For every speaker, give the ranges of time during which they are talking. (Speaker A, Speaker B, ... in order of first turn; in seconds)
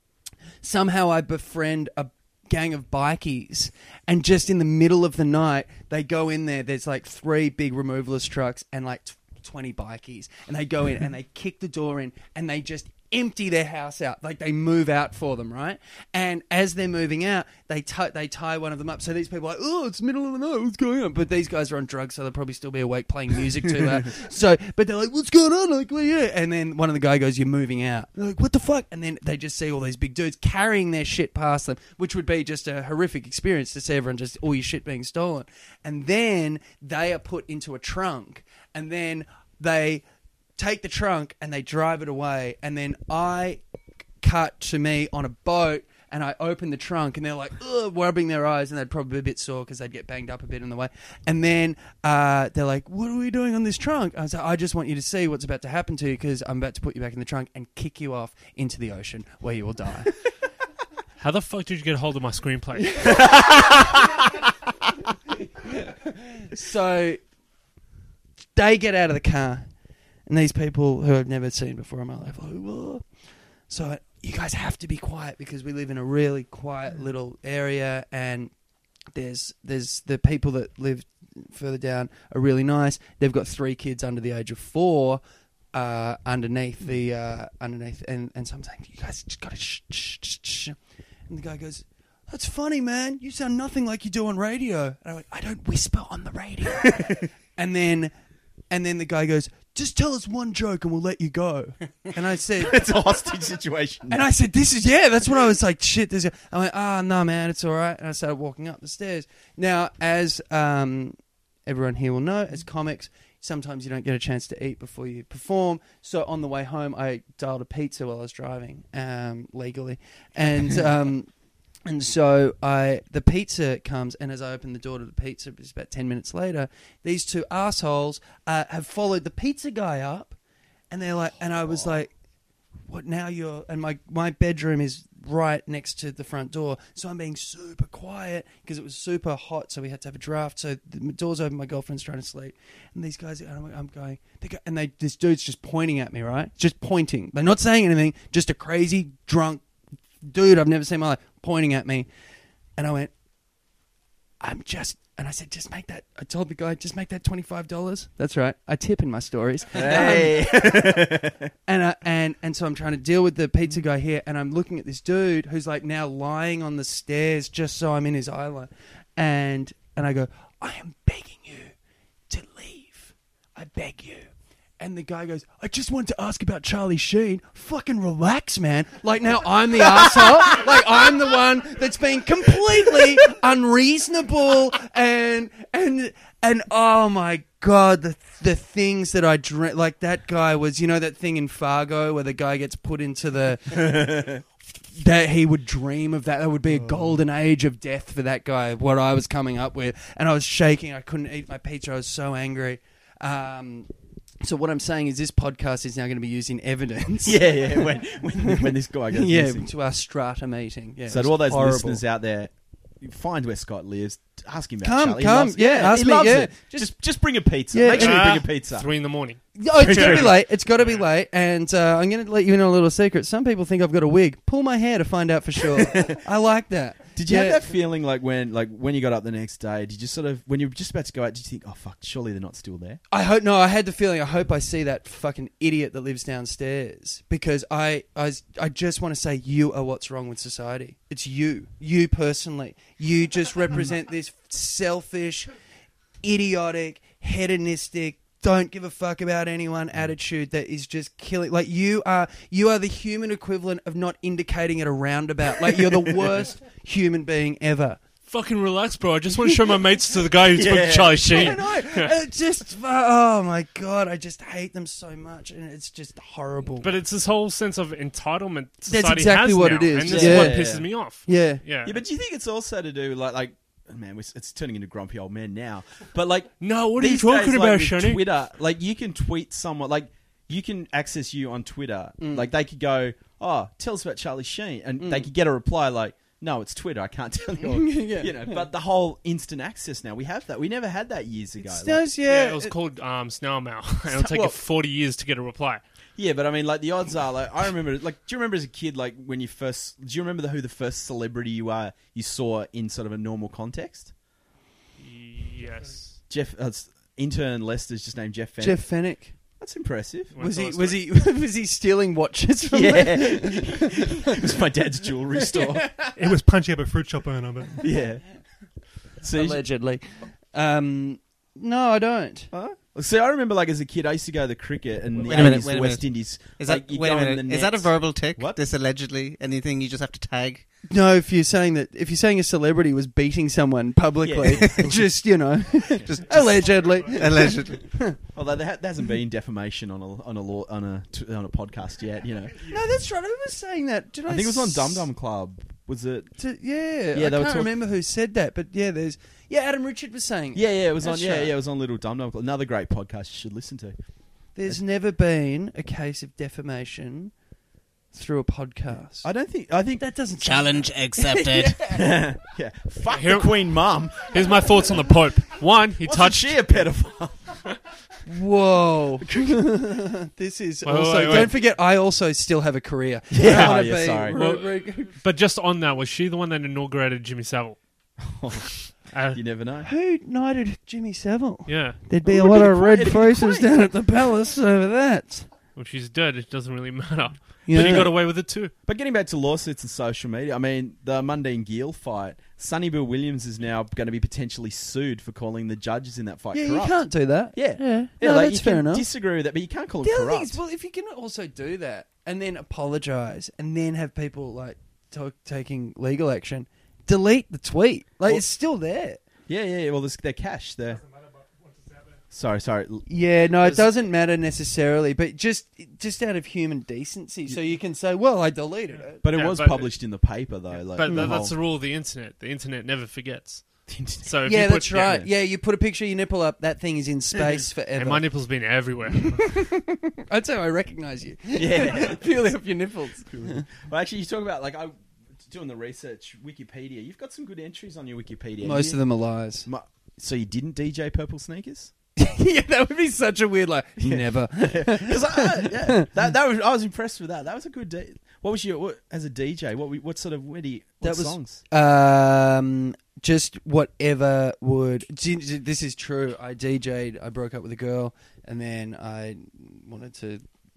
Speaker A: 0.6-40.0, 40.5-60.2, 65.6-67.2, 68.5-78.6, 79.1-85.2, 85.7-90.8, 91.3-98.1, 98.7-102.8, 104.1-130.4, 130.9-132.1, 132.8-149.7, 150.2-152.1, 152.8-153.1, 154.4-161.0, 161.7-171.7, 172.3-194.2, 194.9-203.9, 204.4-212.0, 214.8-218.3, 219.6-227.6, 233.1-245.5, 246.2-258.0, 261.3-266.9, 268.9-270.6, 271.2-271.6, 282.2-282.5, 285.0-285.3, 287.6-288.6, 291.6-292.7, 308.6-309.4, 310.4-314.1, 315.5-316.2, 319.3-322.5, 330.9-338.2, 342.6-345.1, 346.4-351.6, 354.5-357.3, 358.1-359.3, 360.0-361.7, 368.2-375.1, 379.8-385.5, 387.6-388.1, 396.5-399.0, 400.0-409.2, 413.1-419.2, 421.0-421.4, 424.4-428.8, 429.6-433.6, 438.6-439.7, 442.1-446.1, 451.0-460.4
Speaker B: 61.2-63.2, 217.9-221.0, 258.3-262.1, 266.8-272.0, 276.6-278.2, 292.2-295.8, 305.0-306.2, 310.3-311.0, 363.1-366.9, 370.8-371.5, 373.4-379.4, 381.6-382.0, 385.7-388.7, 419.3-425.2, 427.9-429.6
Speaker C: 63.2-64.0, 102.6-104.2, 159.7-161.5, 193.7-194.4, 196.7-197.2, 207.2-209.7, 211.1-219.1, 219.7-220.4, 225.8-226.1, 227.1-233.0, 255.6-256.4, 260.5-261.6, 270.1-270.9, 271.8-292.1, 294.1-294.6, 296.2-304.1, 306.3-310.3, 312.7-316.0, 317.8-318.4, 319.1-319.6, 322.5-328.6, 334.2-336.4, 338.3-342.7, 344.2-346.5, 347.1-347.7, 350.5-354.8, 359.2-360.1, 361.7-365.0, 366.0-367.7, 369.2-369.6, 371.2-371.5, 373.3-374.4, 378.2-379.9, 382.2-384.1, 387.7-400.6, 409.5-411.0, 412.3-413.9, 419.2-421.5, 423.9-425.3, 431.5-432.3, 433.3-441.9, 444.0-451.6
Speaker D: 316.2-317.8, 411.4-412.1
Speaker E: 325.2-330.6, 336.1-338.0, 360.4-362.0